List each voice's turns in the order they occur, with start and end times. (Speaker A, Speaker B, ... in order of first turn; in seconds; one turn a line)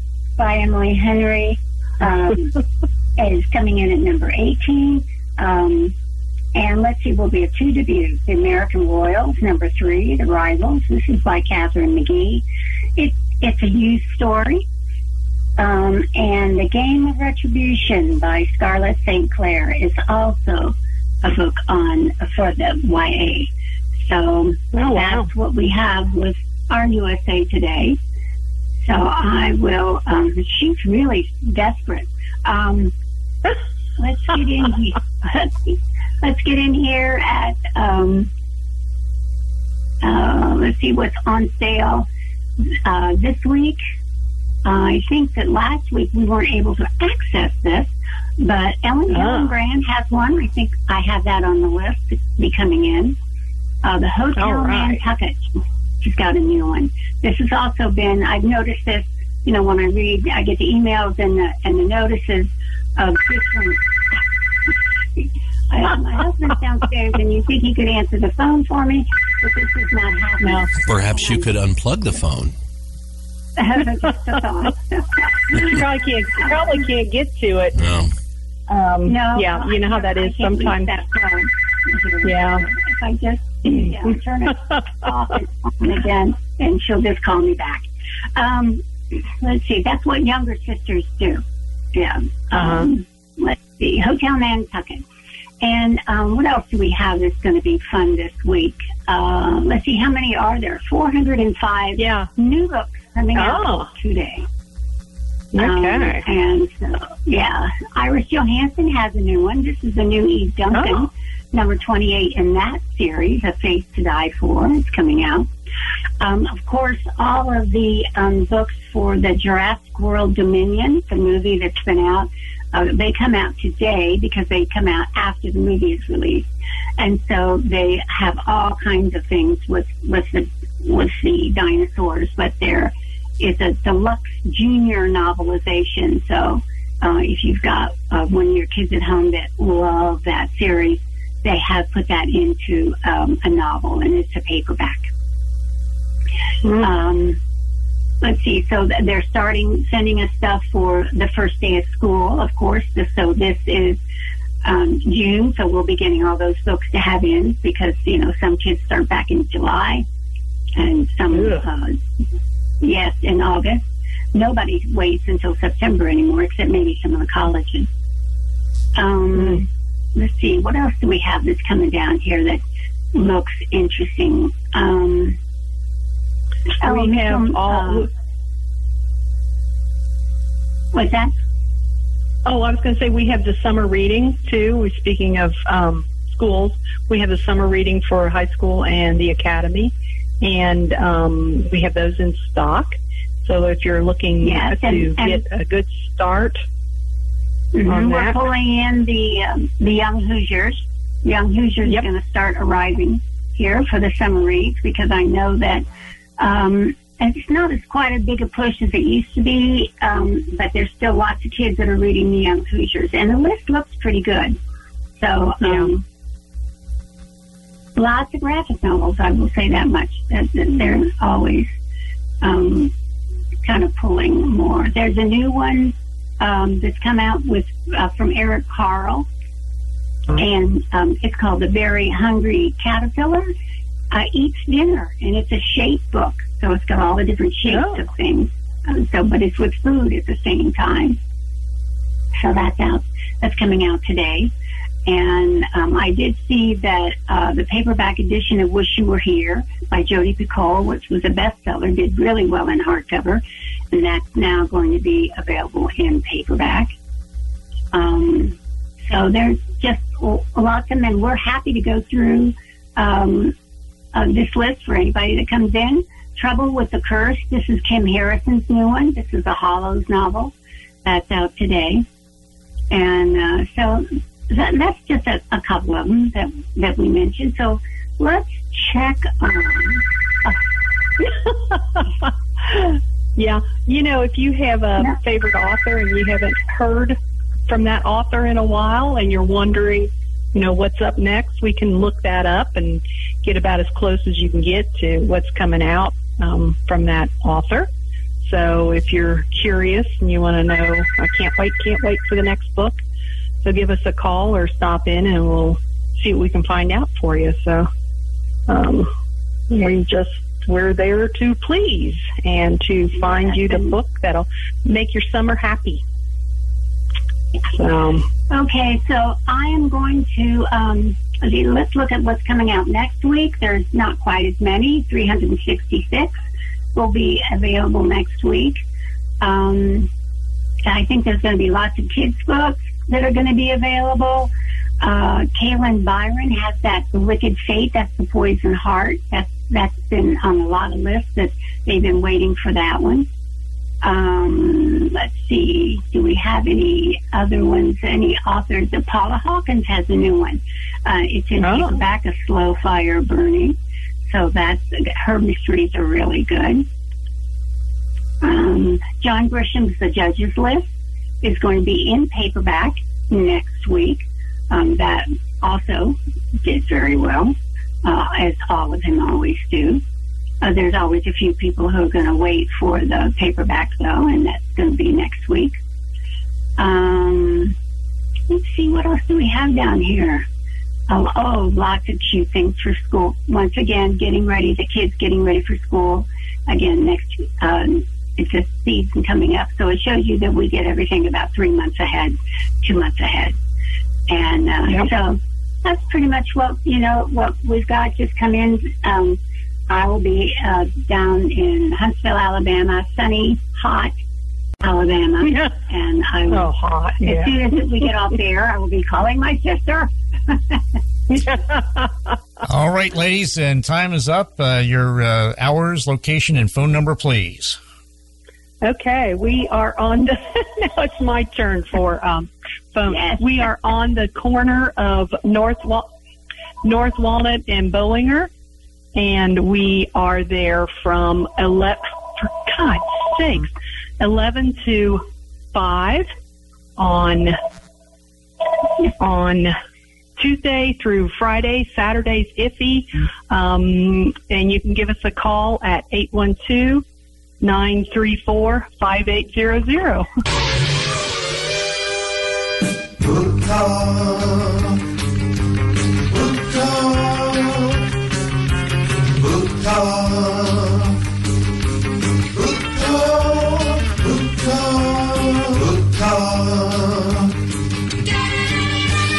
Speaker A: 0.4-2.6
Speaker A: 3.2-5.9
Speaker A: 6.5-12.4
Speaker A: 13.0-14.7
Speaker A: 15.6-28.0
Speaker B: 24.7-25.3
Speaker A: 28.8-32.9
Speaker A: 34.0-38.3
Speaker A: 40.0-42.1
Speaker A: 42.9-43.8
Speaker A: 44.6-53.2
Speaker B: 49.1-49.5
Speaker A: 53.8-63.8
Speaker B: 54.4-55.0
Speaker A: 65.2-71.5
Speaker B: 70.4-70.7
Speaker C: 70.8-72.5
Speaker A: 73.6-75.8
Speaker B: 75.6-77.8
Speaker A: 76.4-76.7
Speaker C: 77.8-78.1
Speaker B: 78.7-81.0
Speaker A: 79.1-91.4
Speaker B: 82.2-82.6
Speaker B: 83.7-84.1
Speaker A: 91.9-95.0
Speaker B: 92.5-92.9
Speaker A: 95.6-104.5
Speaker B: 102.0-102.3
Speaker B: 103.3-103.9
Speaker B: 105.5-106.2
Speaker A: 105.6-115.5
Speaker B: 110.7-111.0
Speaker A: 116.2-145.1
Speaker A: 146.7-147.4
Speaker A: 148.2-154.0
Speaker A: 154.6-160.1
Speaker A: 160.8-162.0
Speaker B: 161.3-161.6
Speaker A: 162.8-167.9
Speaker A: 169.0-172.6
Speaker A: 173.1-175.4
Speaker A: 176.8-178.1
Speaker B: 176.8-178.1
Speaker A: 180.9-181.3
Speaker B: 182.4-196.6
Speaker A: 194.4-195.4
Speaker A: 197.7-205.8
Speaker B: 197.9-198.4
Speaker A: 206.4-214.6
Speaker A: 215.2-216.0
Speaker B: 215.6-215.9
Speaker A: 218.0-221.7
Speaker A: 222.4-222.9
Speaker A: 223.7-229.3
Speaker A: 230.3-233.5
Speaker A: 234.1-241.2
Speaker B: 237.7-238.0
Speaker A: 242.4-244.5
Speaker A: 245.1-256.9
Speaker A: 257.9-263.6
Speaker A: 264.1-270.5
Speaker A: 271.1-272.1
Speaker A: 272.9-280.6
Speaker B: 281.2-297.9
Speaker B: 298.4-303.0
Speaker B: 303.6-307.9
Speaker B: 308.7-309.1
Speaker B: 309.7-316.0
Speaker A: 313.3-313.9
Speaker B: 317.7-318.3
Speaker A: 318.5-326.3
Speaker A: 326.9-328.8
Speaker A: 329.4-330.1
Speaker A: 330.9-343.3
Speaker A: 344.0-353.8
Speaker B: 351.6-352.0
Speaker A: 354.3-356.9
Speaker A: 358.4-360.9
Speaker A: 361.4-370.0
Speaker A: 370.6-375.8
Speaker A: 376.8-377.8
Speaker A: 378.5-380.4
Speaker A: 381.1-393.6
Speaker A: 394.3-404.1
Speaker A: 404.8-410.8
Speaker B: 405.4-405.7
Speaker B: 406.5-408.1
Speaker B: 411.3-412.4
Speaker D: 412.6-417.8
Speaker B: 418.8-426.1
Speaker A: 423.1-423.5
Speaker B: 426.8-428.5
Speaker B: 429.1-436.3
Speaker B: 437.0-437.6
Speaker B: 439.2-439.8
Speaker B: 440.4-447.0
Speaker B: 447.6-450.3
Speaker E: 453.2-455.0
Speaker E: 456.3-458.1
Speaker E: 459.2-461.2
Speaker E: 462.5-467.5